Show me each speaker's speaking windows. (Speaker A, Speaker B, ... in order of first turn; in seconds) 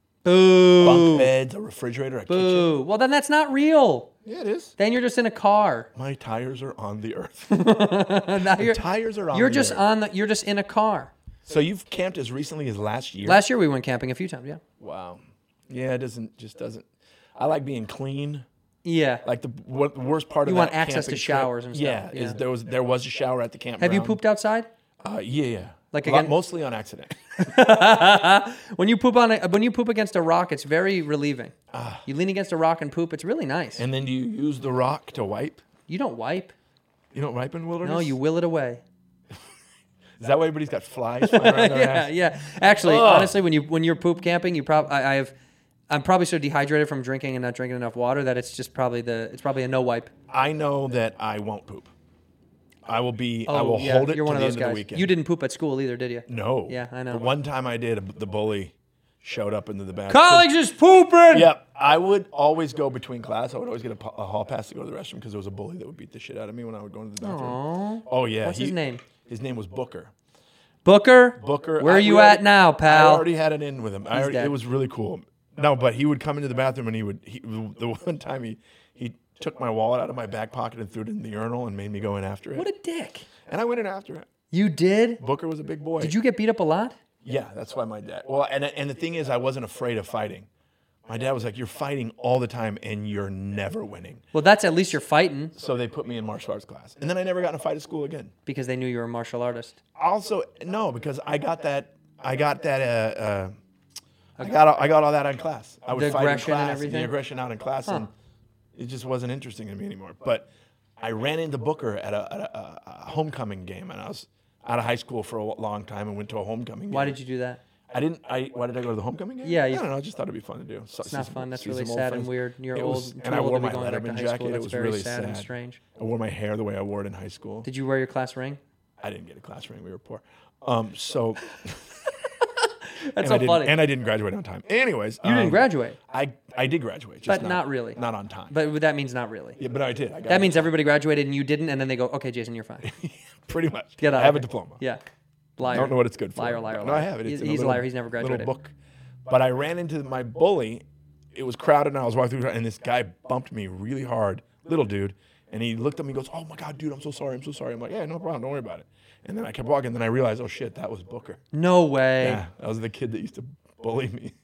Speaker A: 0.2-1.3, 2.3-4.1, 4.8-5.9, 7.5-8.8, 9.3-11.1, 13.2-14.6, 18.8-19.2, 20.4-22.4, 23.8-24.7, 25.9-26.3, 27.5-31.5, 32.1-33.9, 35.9-36.5, 37.8-38.8, 41.2-45.3, 45.9-50.1, 53.5-57.2, 60.1-61.5, 67.2-69.0, 70.8-73.3, 74.1-74.5, 82.6-83.3, 84.5-85.2, 86.0-87.0, 94.3-95.5, 98.5-99.8, 105.9-107.1, 116.9-117.6, 119.4-119.9, 121.1-125.8, 127.6-128.6, 132.9-133.7, 135.2-136.0, 137.3-138.0, 138.5-139.6, 140.3-142.9, 144.0-145.0, 145.6-148.5, 161.5-162.4
Speaker B: 0.8-2.7, 4.2-4.8, 6.0-7.6, 8.4-9.8, 11.5-13.4, 14.8-18.5, 19.2-24.2, 25.0-27.5, 31.7-32.0, 33.8-35.6, 37.1-38.2, 40.2-42.1, 42.8-43.4, 50.3-51.9, 52.9-55.1, 56.3-60.5, 61.3-70.1, 71.4-82.7, 83.5-84.3, 85.2-86.2, 87.2-90.5, 91.1-94.2, 95.5-98.3, 100.0-103.6, 104.4-108.1, 108.8-117.2, 117.9-127.7, 129.0-131.9, 133.2-138.5, 139.6-140.7, 142.8-144.8, 145.6-148.7, 149.3-161.4, 162.2-164.3